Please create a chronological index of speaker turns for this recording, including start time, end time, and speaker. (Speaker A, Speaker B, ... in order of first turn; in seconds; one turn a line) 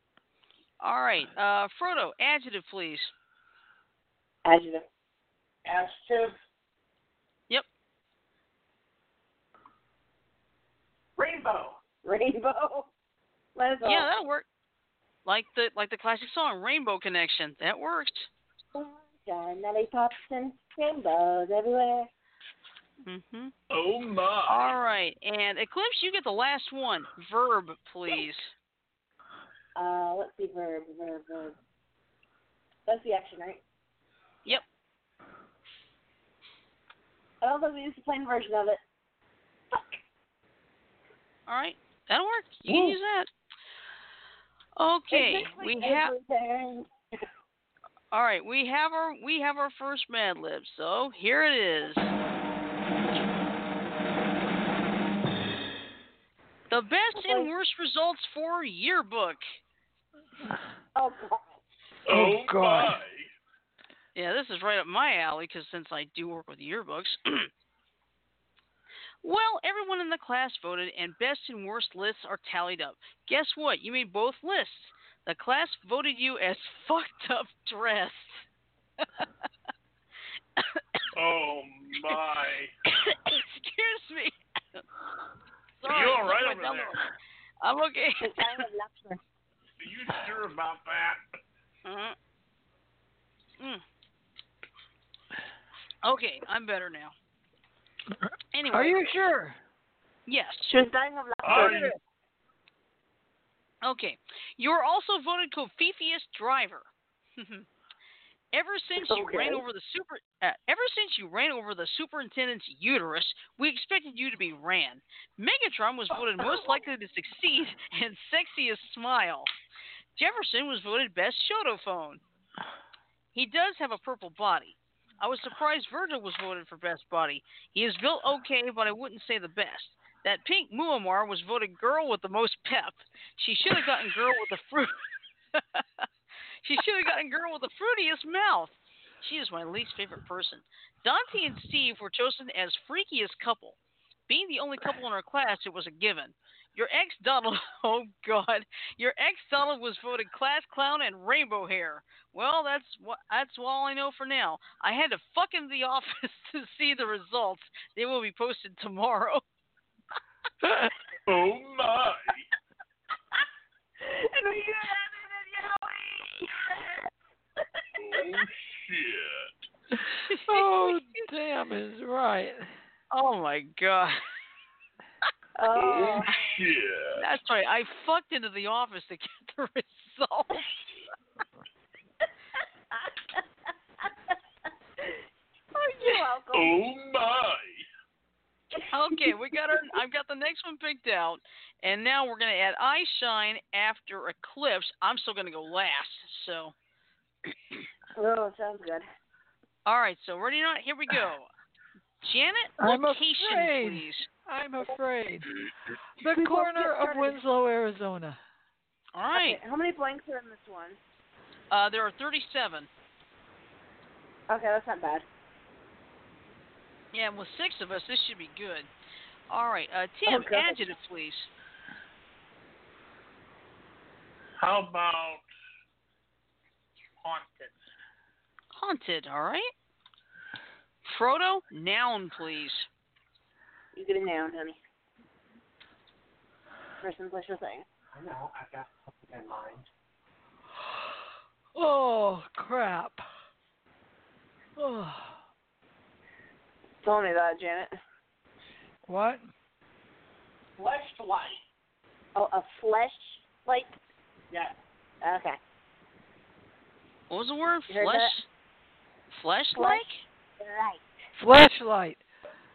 Speaker A: 0.8-3.1
Speaker B: 4.5-4.8
Speaker C: 5.7-6.4
Speaker C: 11.2-11.8
Speaker B: 12.0-12.9
Speaker B: 13.6-14.1
Speaker A: 13.8-14.5
Speaker A: 15.3-18.3
Speaker B: 18.7-22.1
Speaker A: 23.0-23.5
Speaker D: 23.7-24.8
Speaker A: 24.5-28.5
Speaker B: 29.8-31.6
Speaker B: 32.9-33.6
Speaker B: 37.4-38.8
Speaker B: 39.7-40.0
Speaker A: 41.5-43.3
Speaker B: 42.7-42.9
Speaker A: 44.8-46.1
Speaker B: 45.1-46.9
Speaker A: 48.1-52.1
Speaker A: 56.7-59.4
Speaker B: 57.1-57.5
Speaker B: 61.0-61.5
Speaker D: 62.1-63.3
Speaker E: 62.1-63.0
Speaker A: 64.2-67.5
Speaker A: 69.2-78.5
Speaker A: 80.6-81.0
Speaker D: 81.2-82.7
Speaker A: 82.9-84.8
Speaker A: 85.8-87.0
Speaker D: 85.8-87.0
Speaker A: 87.6-88.6
Speaker B: 88.2-89.2
Speaker D: 89.8-91.2
Speaker A: 91.8-92.2
Speaker A: 96.0-97.1
Speaker A: 98.5-99.1
Speaker E: 98.7-99.6
Speaker A: 100.3-100.7
Speaker B: 100.7-101.8
Speaker D: 101.4-102.0
Speaker E: 101.5-102.0
Speaker A: 103.8-107.7
Speaker A: 108.5-119.5
Speaker B: 109.1-109.6
Speaker A: 120.2-122.2
Speaker A: 123.3-135.0
Speaker A: 135.5-136.1
Speaker A: 136.6-143.8
Speaker A: 144.3-159.4
Speaker E: 160.6-160.9
Speaker D: 161.3-162.5
Speaker B: 164.0-167.1
Speaker D: 168.0-169.5
Speaker E: 170.0-172.7
Speaker A: 170.3-171.0
Speaker A: 173.1-174.2
Speaker B: 175.6-176.3
Speaker D: 175.8-177.2
Speaker A: 177.2-180.6
Speaker B: 182.9-183.4
Speaker B: 184.0-184.3
Speaker B: 185.7-186.7
Speaker D: 186.5-187.8
Speaker B: 188.8-189.3
Speaker A: 188.9-196.7
Speaker B: 198.2-199.1
Speaker A: 199.9-201.5
Speaker A: 202.2-204.3
Speaker E: 202.8-205.5
Speaker E: 206.2-208.4
Speaker B: 206.3-207.4
Speaker A: 209.1-209.6
Speaker B: 209.3-211.0
Speaker A: 211.7-212.9
Speaker B: 214.5-215.3
Speaker A: 217.1-218.9
Speaker A: 219.5-221.5
Speaker B: 220.3-221.0
Speaker D: 224.6-225.4
Speaker D: 227.2-227.8
Speaker A: 228.7-229.7
Speaker A: 231.1-232.9
Speaker B: 233.9-234.8
Speaker B: 237.0-237.8
Speaker C: 238.1-239.9
Speaker E: 241.8-243.3
Speaker E: 244.8-245.4
Speaker B: 247.0-247.9
Speaker E: 249.1-249.5
Speaker C: 250.8-251.6
Speaker B: 252.3-253.9
Speaker B: 255.2-255.6
Speaker A: 257.3-258.5
Speaker B: 257.9-258.4
Speaker A: 259.3-260.2
Speaker B: 259.8-260.1
Speaker B: 260.6-261.1
Speaker E: 261.4-262.2